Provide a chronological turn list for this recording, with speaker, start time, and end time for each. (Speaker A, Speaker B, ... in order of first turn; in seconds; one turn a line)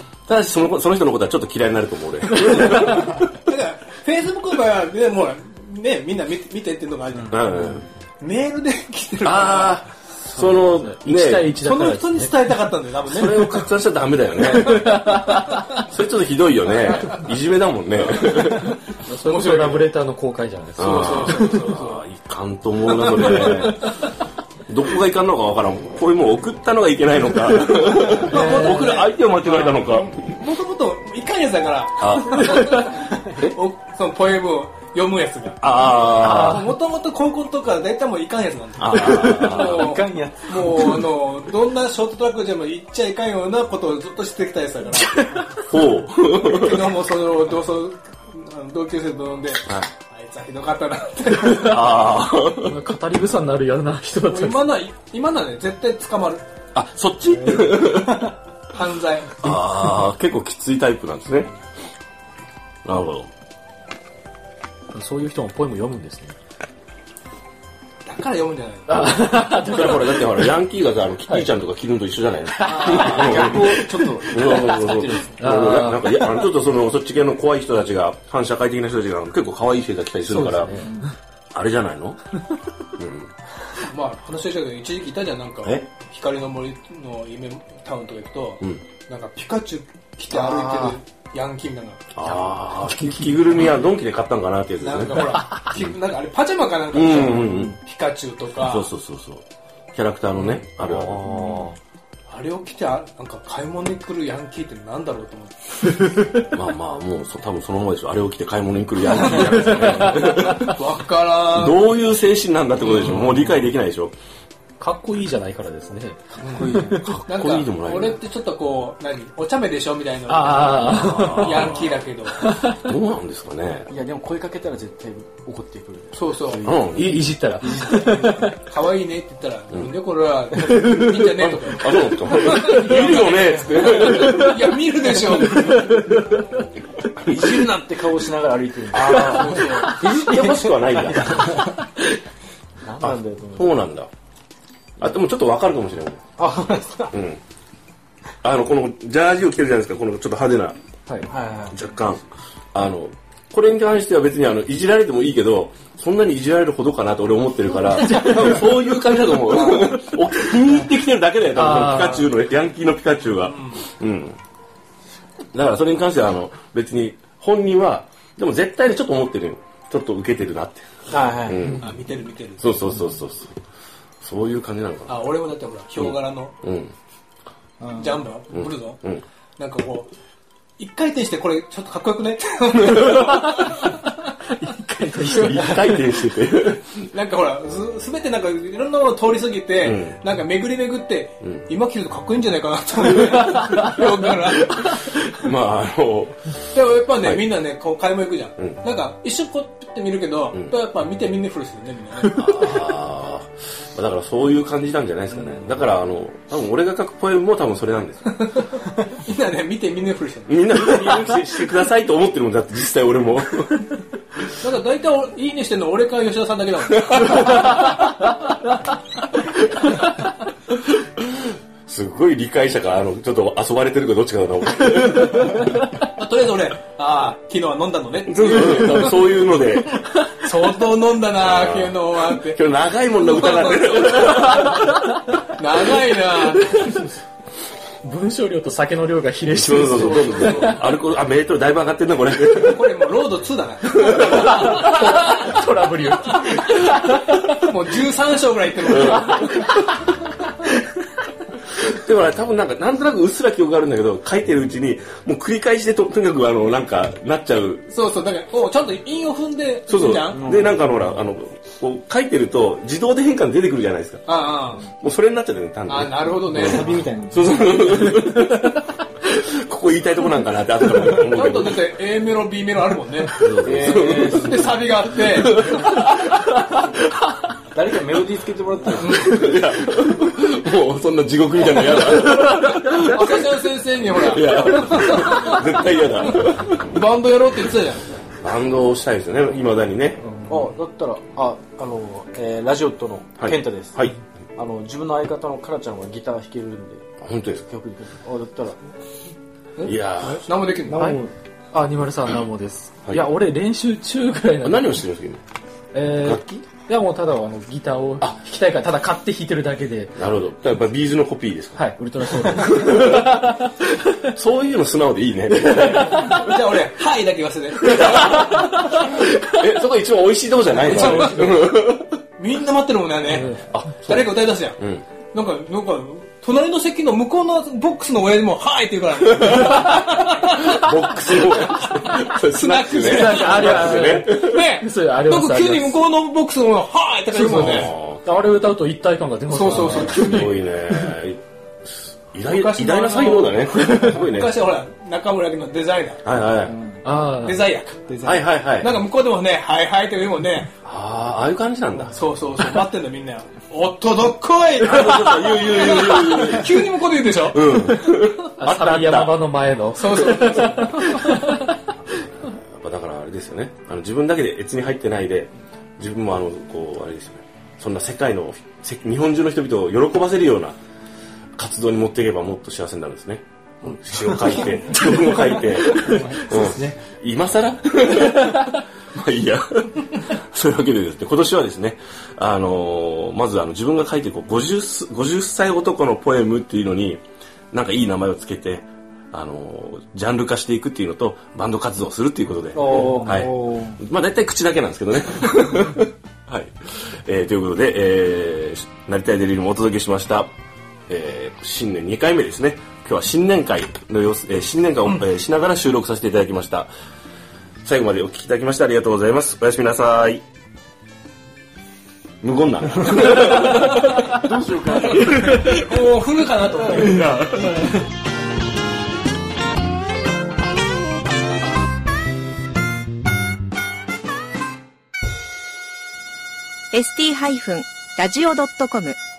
Speaker A: 0.3-3.2
Speaker B: 3.2-9.8
Speaker A: 7.3-7.9
Speaker A: 9.2-11.5
Speaker C: 10.5-12.5
Speaker B: 11.6-13.6
Speaker A: 13.1-18.8
Speaker C: 14.7-15.6
Speaker C: 18.9-21.6
Speaker B: 19.2-19.9
Speaker A: 20.8-23.9
Speaker B: 20.8-22.0
Speaker B: 22.9-23.9
Speaker A: 24.7-30.2
Speaker B: 27.7-45.6
Speaker C: 28.3-28.9
Speaker A: 32.0-33.6
Speaker A: 35.6-36.7
Speaker C: 36.2-36.7
Speaker A: 38.8-39.9
Speaker D: 39.4-41.0
Speaker A: 45.6-46.9
Speaker B: 46.4-52.2
Speaker A: 51.4-52.8
Speaker C: 52.6-54.6
Speaker B: 54.2-56.4
Speaker A: 56.7-58.3
Speaker B: 58.7-59.5
Speaker A: 59.4-61.5
Speaker A: 62.8-63.3
Speaker C: 64.9-66.3
Speaker B: 68.0-69.7
Speaker C: 68.9-70.5
Speaker A: 68.9-80.9
Speaker C: 72.6-73.8
Speaker D: 72.6-75.5
Speaker C: 75.4-76.4
Speaker C: 80.3-81.1
Speaker A: 81.5-82.2
Speaker A: 83.0-83.3
Speaker B: 83.8-92.3
Speaker A: 85.6-85.9
Speaker D: 90.3-90.9
Speaker A: 92.1-95.9
Speaker B: 94.8-98.9
Speaker A: 96.9-97.8
Speaker A: 98.6-101.6
Speaker C: 100.8-101.8
Speaker B: 102.3-105.7
Speaker A: 106.4-110.8
Speaker C: 109.5-110.5
Speaker B: 110.6-111.9
Speaker A: 111.5-114.1
Speaker B: 112.9-113.3
Speaker C: 113.0-113.4
Speaker C: 114.8-117.1
Speaker B: 116.4-122.5
Speaker D: 116.5-117.1
Speaker A: 116.8-118.2
Speaker C: 120.3-121.7
Speaker A: 121.0-122.0
Speaker C: 122.3-122.8
Speaker A: 122.7-123.9
Speaker D: 123.9-127.0
Speaker B: 126.1-126.7
Speaker A: 126.6-127.3
Speaker C: 126.9-128.5
Speaker D: 127.6-128.3
Speaker B: 128.0-136.0
Speaker A: 130.7-134.8
Speaker C: 134.2-134.6
Speaker C: 135.7-136.4
Speaker A: 137.2-137.7
Speaker D: 137.2-141.7
Speaker A: 138.9-141.8
Speaker B: 139.0-140.0
Speaker C: 139.3-139.8
Speaker D: 142.8-143.7
Speaker A: 143.0-144.1
Speaker A: 145.0-146.2
Speaker D: 146.4-147.1
Speaker A: 147.1-147.4
Speaker A: 148.4-150.8
Speaker C: 151.1-151.3
Speaker D: 151.3-151.7
Speaker A: 151.7-164.4
Speaker C: 158.1-158.7
Speaker C: 161.5-162.3
Speaker B: 163.4-163.8
Speaker A: 165.5-171.8
Speaker D: 171.1-171.8
Speaker B: 171.8-172.9
Speaker A: 172.6-173.6
Speaker A: 174.2-175.2
Speaker B: 175.1-176.5
Speaker A: 175.9-176.9
Speaker B: 177.9-179.0
Speaker A: 178.5-179.2
Speaker B: 179.6-180.1
Speaker B: 180.8-184.2
Speaker C: 183.1-183.7
Speaker C: 184.4-186.1
Speaker A: 185.2-187.0
Speaker B: 187.0-195.0
Speaker A: 189.8-190.2
Speaker C: 193.6-194.0
Speaker A: 194.8-197.5
Speaker B: 196.7-202.5
Speaker A: 202.3-208.3
Speaker B: 208.2-211.3
Speaker A: 210.5-213.9
Speaker B: 214.6-217.9
Speaker A: 217.1-217.7
Speaker A: 220.9-225.8
Speaker B: 226.0-229.4
Speaker A: 228.2-230.0
Speaker B: 230.3-234.7
Speaker A: 231.4-234.9
Speaker B: 235.4-237.1
Speaker C: 238.0-240.9
Speaker A: 239.5-242.9
Speaker B: 239.9-240.7
Speaker B: 242.6-245.5
Speaker A: 243.9-244.5
Speaker C: 244.3-247.6
Speaker B: 246.3-249.7
Speaker A: 248.9-249.7
Speaker C: 249.1-249.5
Speaker A: 251.8-257.9
Speaker B: 257.9-260.6
Speaker A: 259.9-264.2
Speaker D: 260.4-261.1
Speaker B: 264.3-264.9
Speaker A: 264.9-271.8
Speaker B: 265.9-267.0
Speaker D: 266.5-268.1
Speaker B: 271.2-275.8
Speaker A: 273.3-276.4
Speaker D: 273.6-274.7
Speaker C: 276.4-276.8
Speaker D: 277.7-279.4
Speaker A: 278.9-283.5
Speaker B: 279.0-279.4
Speaker B: 283.0-288.3
Speaker A: 284.1-286.8
Speaker A: 288.4-290.2
Speaker C: 290.2-290.7
Speaker D: 290.5-297.1
Speaker A: 293.4-294.1
Speaker A: 297.2-297.6
Speaker D: 297.6-298.8
Speaker B: 299.8-301.1
Speaker A: 299.8-300.5
Speaker D: 300.9-301.3
Speaker C: 300.9-305.0
Speaker A: 304.6-305.4
Speaker C: 305.9-310.2
Speaker A: 306.1-306.6
Speaker A: 310.1-313.4
Speaker C: 311.7-314.3
Speaker A: 314.3-316.5
Speaker C: 315.8-316.4
Speaker B: 316.0-319.0
Speaker A: 317.9-318.3
Speaker A: 319.0-322.2
Speaker B: 320.8-321.7
Speaker B: 322.4-324.8
Speaker C: 323.3-323.7
Speaker A: 323.6-325.0
Speaker B: 325.3-337.9
Speaker A: 329.5-330.0
Speaker A: 330.7-334.6
Speaker C: 333.0-335.9
Speaker A: 337.3-338.2
Speaker C: 337.3-340.6
Speaker B: 339.5-340.5
Speaker A: 339.7-344.6
Speaker B: 342.4-346.2
Speaker A: 346.2-346.8
Speaker C: 347.0-347.6
Speaker B: 347.3-350.7
Speaker A: 348.2-349.0
Speaker A: 350.8-352.2
Speaker B: 352.1-357.9
Speaker A: 354.8-356.9
Speaker A: 357.4-359.4
Speaker C: 358.6-361.8
Speaker B: 359.9-361.4
Speaker A: 362.4-370.8
Speaker A: 371.6-400.5
Speaker B: 373.9-375.0
Speaker C: 374.3-377.0
Speaker D: 392.7-394.0
Speaker A: 401.1-406.9
Speaker A: 407.8-410.4
Speaker A: 412.4-414.5
Speaker D: 414.3-415.8
Speaker B: 415.0-417.9
Speaker C: 417.1-418.0
Speaker E: 426.9-429.2